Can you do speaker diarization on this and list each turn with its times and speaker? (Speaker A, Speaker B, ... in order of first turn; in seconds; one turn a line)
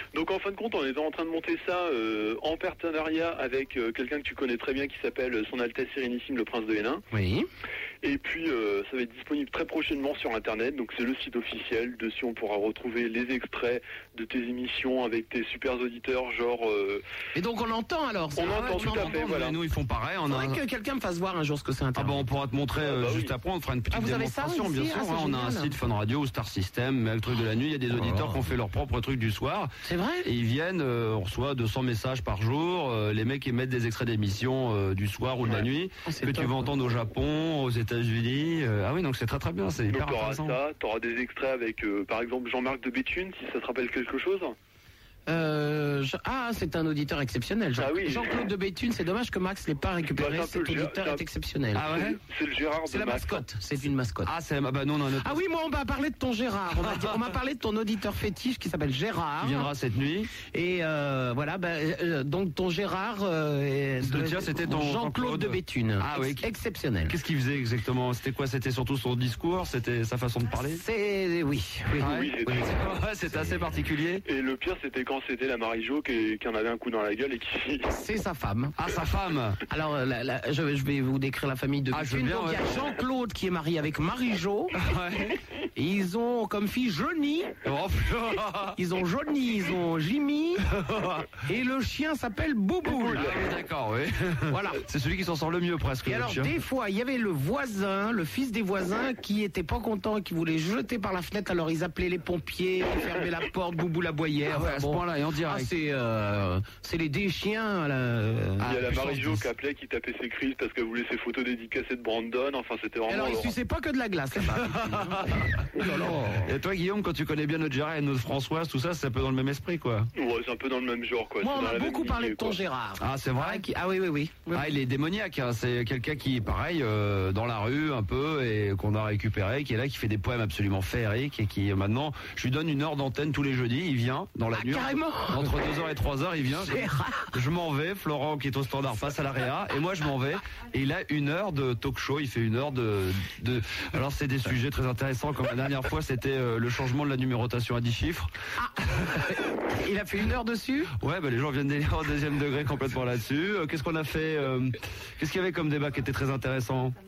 Speaker A: 0.1-7.0
Speaker B: 7.1-7.5
Speaker A: 8.0-17.0
Speaker B: 17.4-19.2
Speaker A: 18.4-19.6
Speaker C: 18.4-20.6
Speaker B: 20.3-22.3
Speaker C: 21.9-29.7
Speaker A: 22.8-23.3
Speaker B: 23.9-25.8
Speaker B: 27.9-28.4
Speaker B: 29.8-30.3
Speaker C: 30.2-40.6
Speaker B: 36.0-36.7
Speaker A: 39.9-44.5
Speaker B: 45.3-52.0
Speaker A: 47.8-48.5
Speaker A: 50.1-51.2
Speaker C: 51.8-52.2
Speaker A: 52.1-53.5
Speaker B: 52.9-54.3
Speaker C: 54.2-55.4
Speaker B: 55.2-59.7
Speaker C: 56.8-57.2
Speaker C: 59.4-60.3
Speaker B: 60.5-67.2
Speaker C: 64.0-66.5
Speaker C: 67.1-70.8
Speaker B: 70.7-72.6
Speaker C: 72.0-74.2
Speaker A: 72.0-72.7
Speaker A: 74.3-77.9
Speaker B: 77.9-78.8
Speaker C: 78.8-79.6
Speaker B: 79.7-84.8
Speaker C: 81.9-82.8
Speaker C: 84.8-85.4
Speaker B: 85.8-87.5
Speaker C: 87.6-88.8
Speaker B: 88.8-90.7
Speaker C: 90.7-91.2
Speaker B: 91.4-93.3
Speaker A: 92.9-93.4
Speaker C: 93.1-96.6
Speaker B: 94.5-94.8
Speaker B: 96.1-109.4
Speaker C: 104.5-105.7
Speaker A: 108.6-113.5
Speaker B: 113.1-116.5
Speaker C: 114.5-115.6
Speaker C: 116.5-120.1
Speaker A: 120.2-122.6
Speaker B: 121.4-124.7
Speaker C: 123.0-123.7
Speaker C: 124.5-148.3
Speaker B: 134.5-135.6
Speaker B: 136.6-137.3
Speaker B: 148.6-150.9
Speaker C: 151.0-157.0